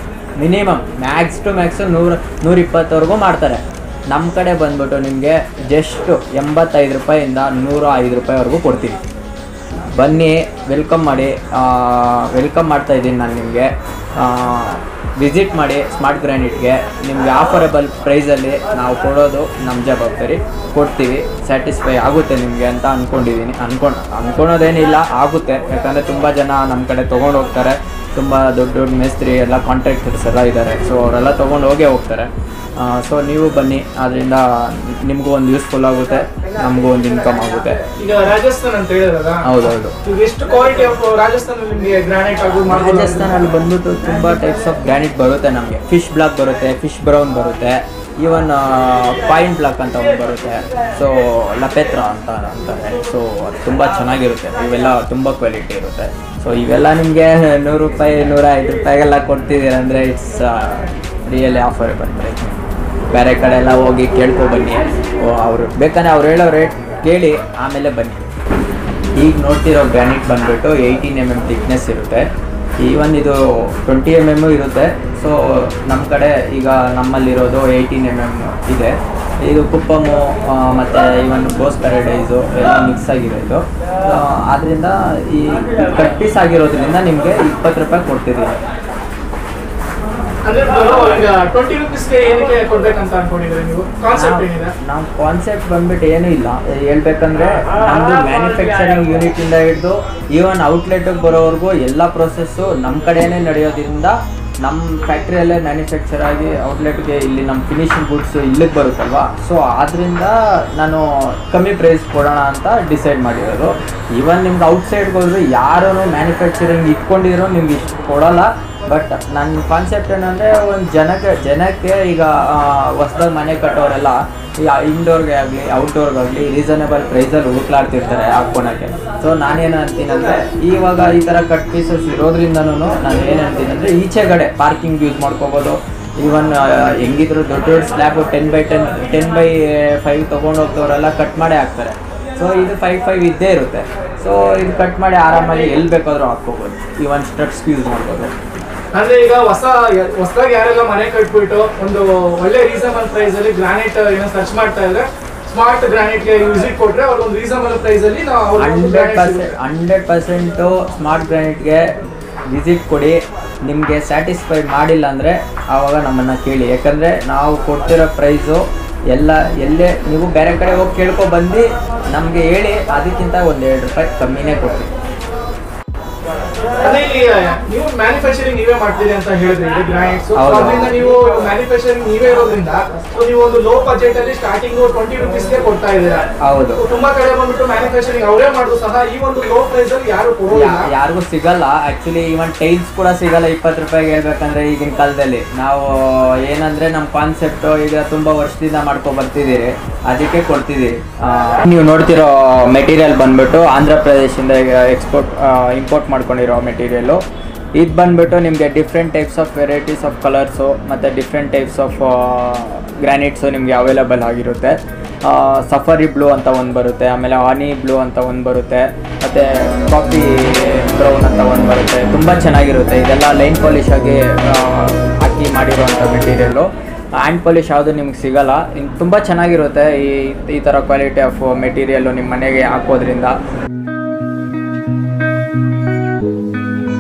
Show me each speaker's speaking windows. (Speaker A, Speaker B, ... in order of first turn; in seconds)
Speaker A: 0.4-9.0, 9.9-37.8, 39.5-39.9, 42.7-62.6, 63.1-68.2, 69.2-72.3, 72.8-78.9, 79.4-88.6, 94.1-148.4, 158.6-161.9, 162.5-174.9, 180.3-181.0, 186.4-186.8, 190.5-207.2, 207.8-233.3
Speaker B: 38.0-43.5, 90.5-94.7, 148.9-159.4, 176.8-186.2, 186.8-190.9